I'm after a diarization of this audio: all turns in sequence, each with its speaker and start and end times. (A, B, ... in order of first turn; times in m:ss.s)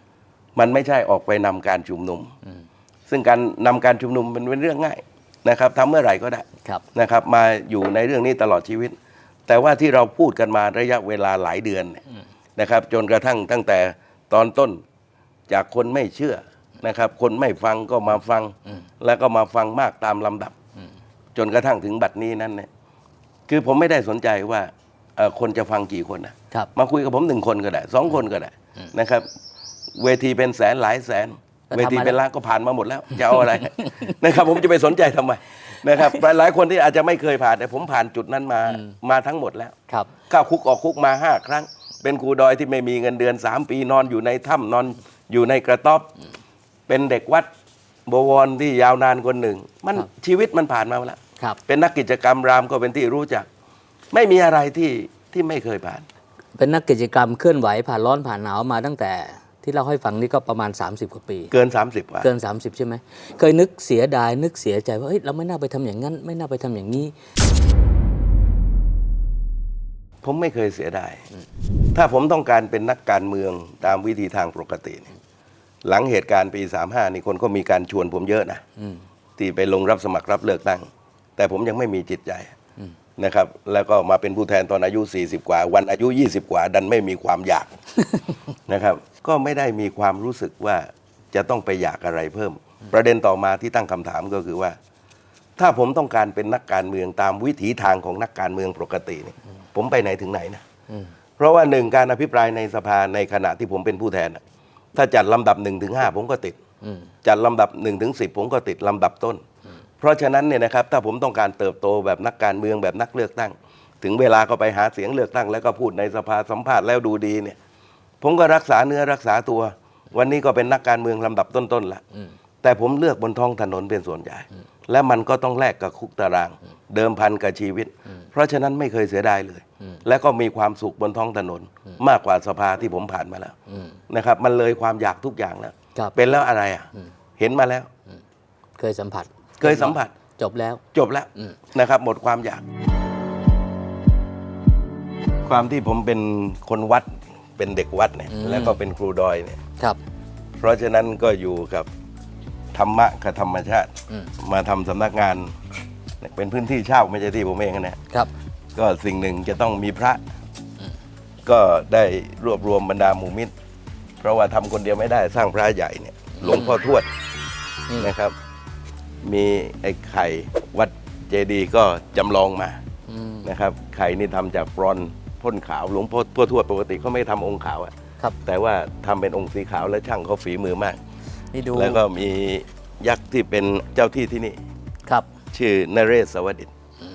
0:00.6-0:02.3 A
0:03.1-0:09.0 A
0:09.5-0:12.0 A
0:12.6-0:14.8 A
0:15.5-0:20.6 A
0:21.4-0:22.7 A
0:23.5-0:29.3 A
0:30.0-0:39.8 A
0:31.7-0:32.2 B
0:40.3-0:46.1 A
0:46.9-0:47.5 A
0:48.1-0:53.5 A
0:54.1-0:56.1 A
0:56.6-1:01.5 B
1:01.5-1:02.3 A
1:02.2-1:07.1 B
1:10.2-1:11.2 A
1:12.0-1:15.1 A
1:15.8-1:18.6 A
1:19.4-1:22.5 A
1:23.2-1:27.7 A
1:28.7-1:34.8 A
1:35.6-1:40.6 A
1:41.4-1:44.4 A
1:45.0-1:46.6 A
1:46.8-1:47.1 B
1:47.2-1:49.4 A
1:50.0-1:57.6 A
1:58.2-2:02.0 A
2:02.6-2:13.5 A
2:13.7-2:14.0 B
2:14.1-2:17.9 A
2:18.8-2:20.8 B
2:19.6-2:20.2 A
2:20.9-2:22.6 A
2:25.4-2:29.6 A
2:28.3-2:28.8 B
2:30.6-2:31.9 A
2:32.7-2:35.5 A
2:36.2-2:38.0 A
2:38.8-2:40.2 A
2:41.5-2:43.5 A
2:44.2-2:47.1 A
2:46.4-2:46.8 B
2:48.0-2:48.3 A
2:49.2-2:52.8 A
2:53.1-2:53.5 B
2:53.4-2:57.9 A
2:58.4-3:01.0 A
3:01.5-3:02.0 B
3:01.7-3:04.6 A
3:05.5-3:06.7 A